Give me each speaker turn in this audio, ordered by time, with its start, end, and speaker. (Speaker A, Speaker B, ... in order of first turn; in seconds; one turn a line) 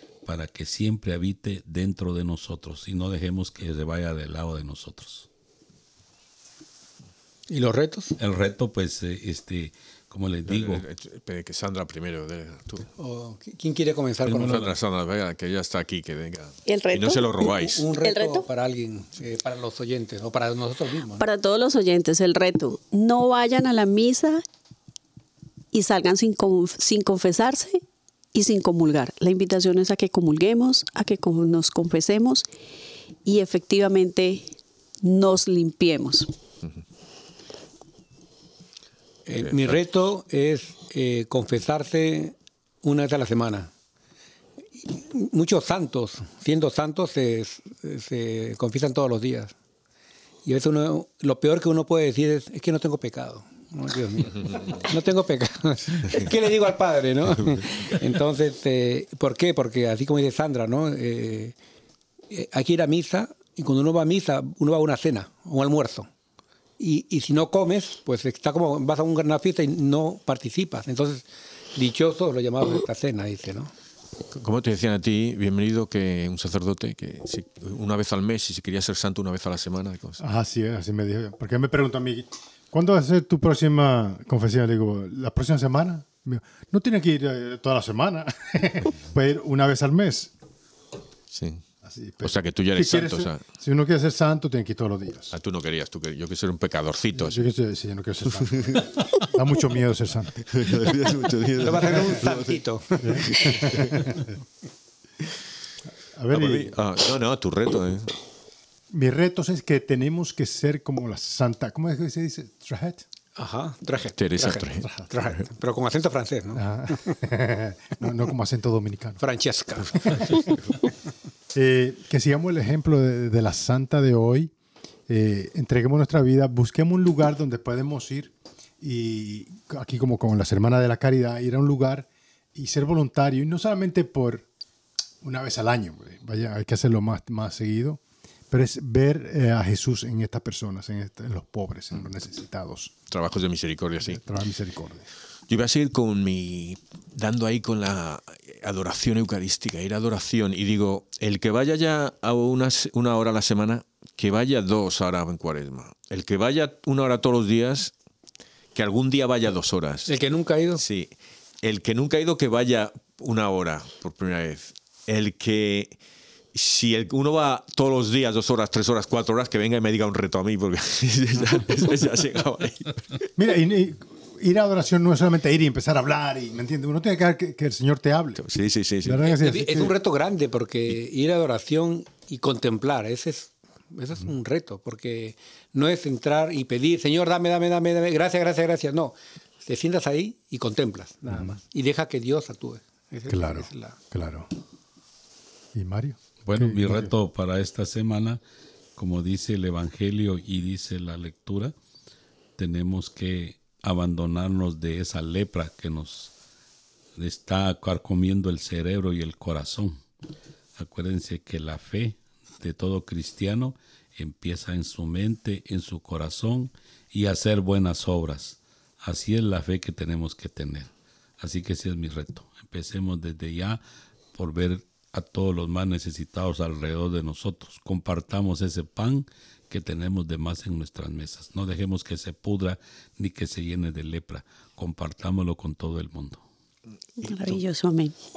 Speaker A: 0.2-5.3
Speaker B: 7.5-8.2
Speaker A: 8.2-10.8
Speaker C: 10.5-12.9
Speaker B: 13.0-14.7
Speaker A: 14.2-14.7
Speaker C: 14.3-17.9
Speaker D: 16.6-17.4
Speaker B: 17.5-21.2
Speaker D: 18.0-18.5
Speaker D: 21.2-24.4
Speaker D: 25.7-27.8
Speaker D: 28.3-32.5
Speaker D: 33.2-34.4
Speaker D: 35.0-36.3
Speaker B: 39.2-43.7
Speaker C: 39.4-39.8
Speaker B: 44.7-49.5
Speaker B: 50.4-61.5
Speaker B: 62.3-66.1
Speaker B: 66.8-73.7
Speaker C: 74.3-80.2
Speaker E: 80.2-90.3
Speaker C: 91.3-91.6
Speaker E: 91.8-95.3
Speaker C: 92.2-93.4
Speaker C: 95.3-97.5
Speaker E: 97.2-100.4
Speaker C: 98.4-99.0
Speaker C: 100.4-102.6
Speaker B: 101.6-103.8
Speaker E: 103.0-104.2
Speaker C: 103.2-104.2
Speaker E: 106.1-106.8
Speaker C: 106.3-108.1
Speaker E: 108.9-113.0
Speaker B: 113.4-117.1
Speaker C: 114.2-115.4
Speaker E: 116.5-119.2
Speaker B: 119.2-120.5
Speaker E: 120.2-120.5
Speaker E: 121.5-124.5
Speaker E: 125.1-134.5
Speaker E: 135.2-142.9
Speaker C: 143.1-144.2
Speaker E: 144.0-145.1
Speaker C: 145.5-157.9
Speaker C: 158.7-160.2
Speaker B: 160.1-160.8
Speaker C: 160.8-166.0
Speaker C: 166.5-173.2
Speaker E: 173.4-178.4
Speaker C: 178.4-179.3
Speaker E: 179.0-180.0
Speaker B: 179.4-194.0
Speaker E: 193.3-194.5
Speaker E: 195.7-197.1
Speaker A: 196.4-198.4
Speaker A: 198.9-201.7
Speaker A: 202.6-206.3
Speaker A: 207.2-210.0
Speaker A: 210.8-223.8
Speaker A: 224.3-236.4
Speaker D: 237.2-238.1